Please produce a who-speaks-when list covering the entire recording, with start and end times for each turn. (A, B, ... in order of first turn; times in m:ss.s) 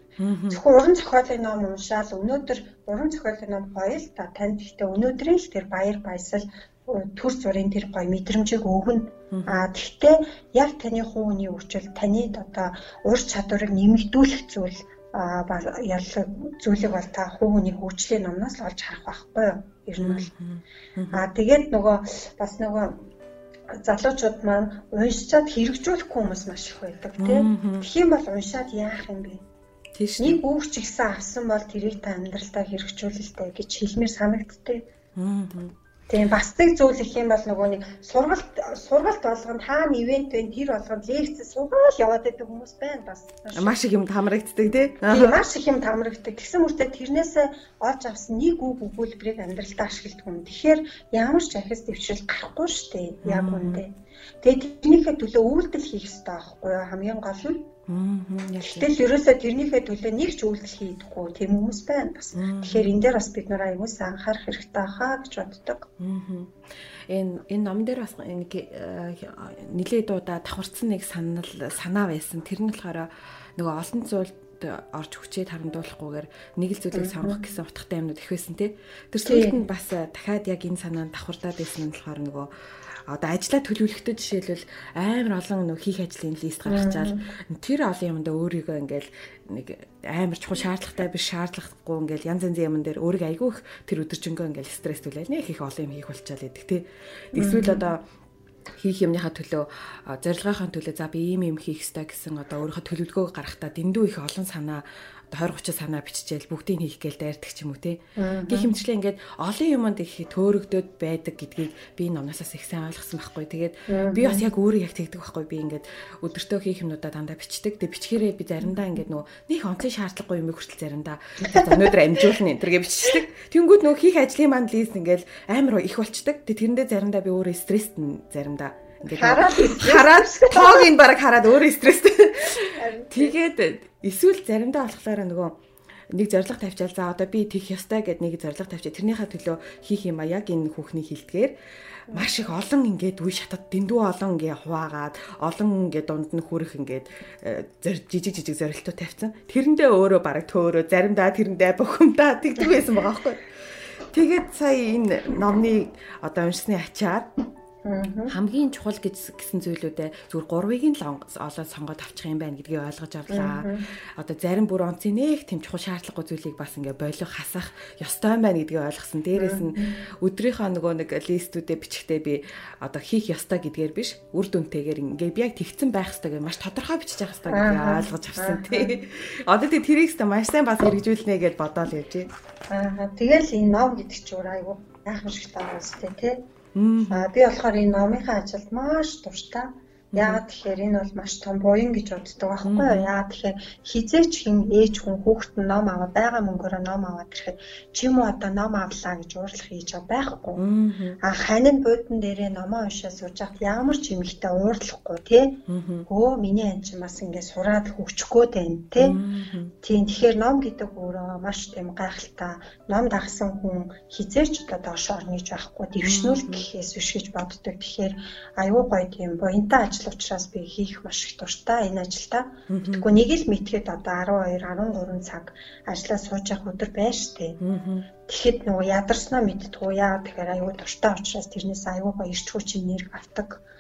0:00.2-0:00.6 A
0:00.5-0:20.3 B
0:09.3-0:09.7 A
0:20.0-0:21.3 A
0:21.1-0:23.1 B
0:23.7-0:29.4 B
0:27.2-0:27.9 A
0:30.0-0:30.4 A
0:30.2-0:34.9 B
0:35.2-0:35.8 A
0:36.1-0:43.8 B
0:43.6-0:45.4 A
0:45.0-0:57.7 B
0:53.2-0:53.8 A
0:57.9-0:58.9 A
0:58.6-1:05.9 B
1:02.4-1:02.9 A
1:06.0-1:22.5 A
1:16.9-1:17.4 B
1:19.2-1:19.6 B
1:23.1-1:38.0 A
1:26.7-1:27.3 B
1:37.3-1:37.8 B
1:38.8-2:15.6 A
1:48.2-1:48.7 B
1:53.9-1:54.5 B
2:01.4-2:02.3 B
2:09.0-2:10.9 B
2:12.5-2:13.4 B
2:16.1-2:21.5 A
2:22.1-2:37.3 A
2:37.8-2:38.4 B
2:38.3-3:02.3 A
2:43.3-2:43.8 B
2:49.4-2:50.0 B
2:57.5-2:59.0 B
3:02.7-3:06.4 B
3:06.8-3:07.3 A
3:07.1-3:20.6 B
3:10.1-3:10.4 A
3:12.7-3:13.1 A
3:20.6-3:21.2 A
3:21.2-3:29.2 B
3:25.7-3:26.1 A
3:29.0-3:29.7 A
3:29.8-3:47.6 B
3:36.0-3:36.6 A
3:42.7-3:43.1 A
3:47.6-3:48.1 A
3:48.3-3:53.6 B